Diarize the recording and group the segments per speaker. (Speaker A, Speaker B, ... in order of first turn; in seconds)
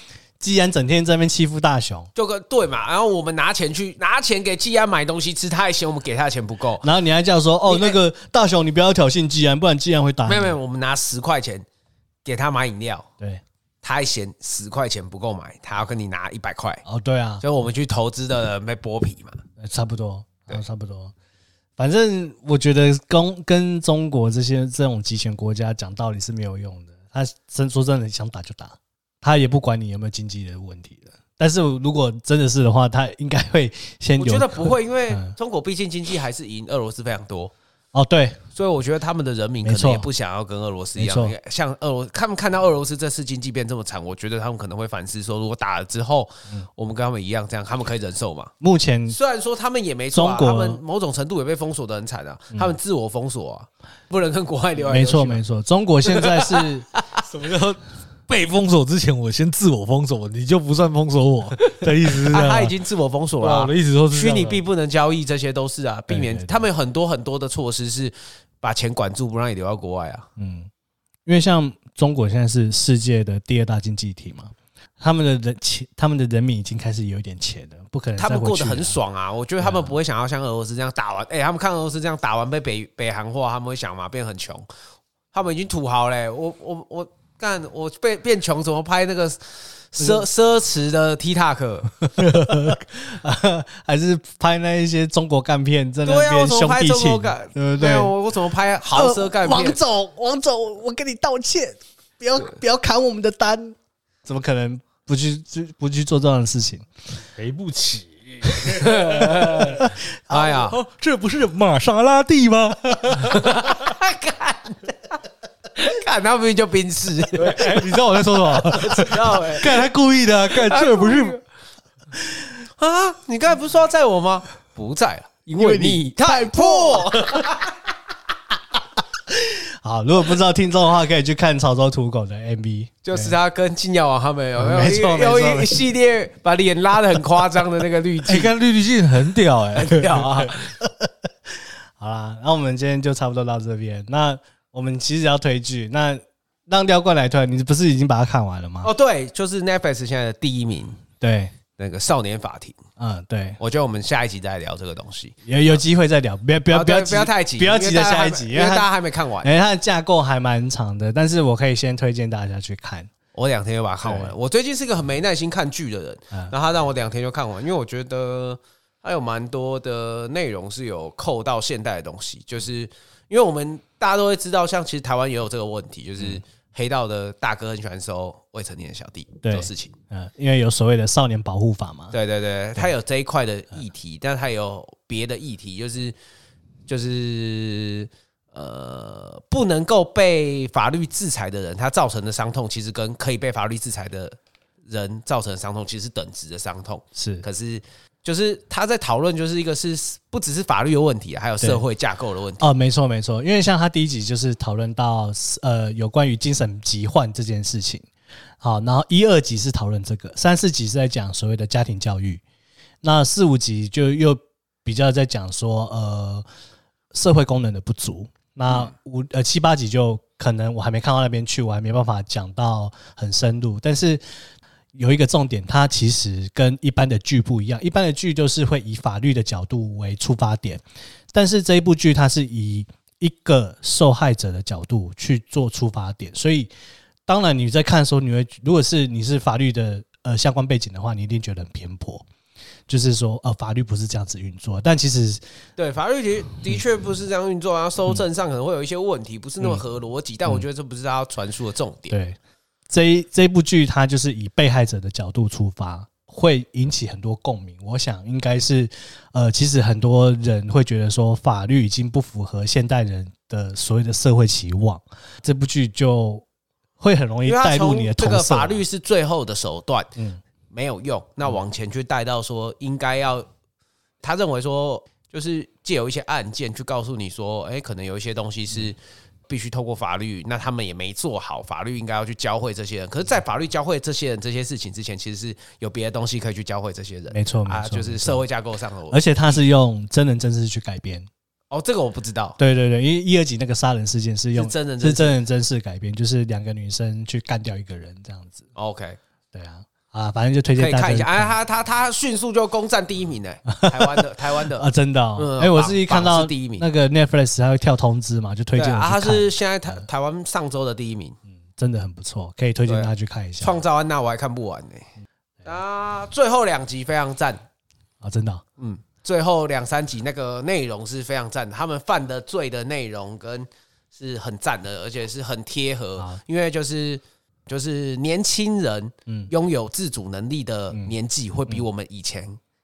Speaker A: 0.4-2.1, 6.8-10.6, 16.9-17.4, 19.6-21.1, 21.8-35.3, 37.9-38.4, 39.6-40.1, 41.0-41.3, 48.6-49.1, 50.1-50.8, 54.8-56.9, 66.1-66.6, 70.4-70.7, 71.2-79.0, 79.6-79.9, 92.0-98.1, 98.9-106.8, 109.7-110.7, 117.4-121.3, 125.5-127.7, 129.3-133.3, 134.6-135.8, 140.8-148.9, 151.2-151.5, 153.0-153.6, 155.4-158.9, 159.4-163.1, 164.0-164.3, 179.4-182.2, 197.1-197.4, 202.6-208.1, 208.6-212.4, 213.0-216.4, 217.1-224.2, 224.9-236.7, 237.3-242.2, 242.9-245.4, 252.1-252.4, 252.9-266.4, 267.0-268.8, 270.1-270.4, 287.3-288.4, 289.1-291.3, 292.6-298.6, 299.5-301.5, 303.7-304.2, 304.8-310.0, 311.7-313.8, 318.2-318.6
Speaker B: 2.1-6.9, 7.7-8.0, 10.2-11.7, 12.2-13.1, 13.8-16.8, 17.4-19.4, 34.2-37.5, 38.5-48.5, 49.1-55.4, 56.1-57.2, 62.3-70.2, 78.2-84.7, 85.3-91.9, 96.0-99.8, 108.6-110.8, 113.2-114.9, 115.7-117.7, 118.7-119.7, 120.6-121.4, 122.8-127.7, 133.0-138.5, 139.7-140.7, 148.8-151.0, 151.8-152.8, 153.6-155.8, 156.7-159.5, 163.3-179.9, 182.1-186.1, 186.9-194.4, 194.9-202.7, 245.8-252.1, 267.4-270.1, 270.7-273.5, 274.2-279.0, 279.5-289.6, 291.7-292.6, 294.5-295.3, 298.7-299.2, 300.8-306.8, 308.7-311.4, 312.9-315.1, 315.6-317.6, 318.8-332.6
Speaker C: 57.2-62.7, 63.4-64.6, 92.3-92.7, 107.4-109.8, 110.6-113.5, 117.6-118.7, 119.6-121.3, 138.2-140.5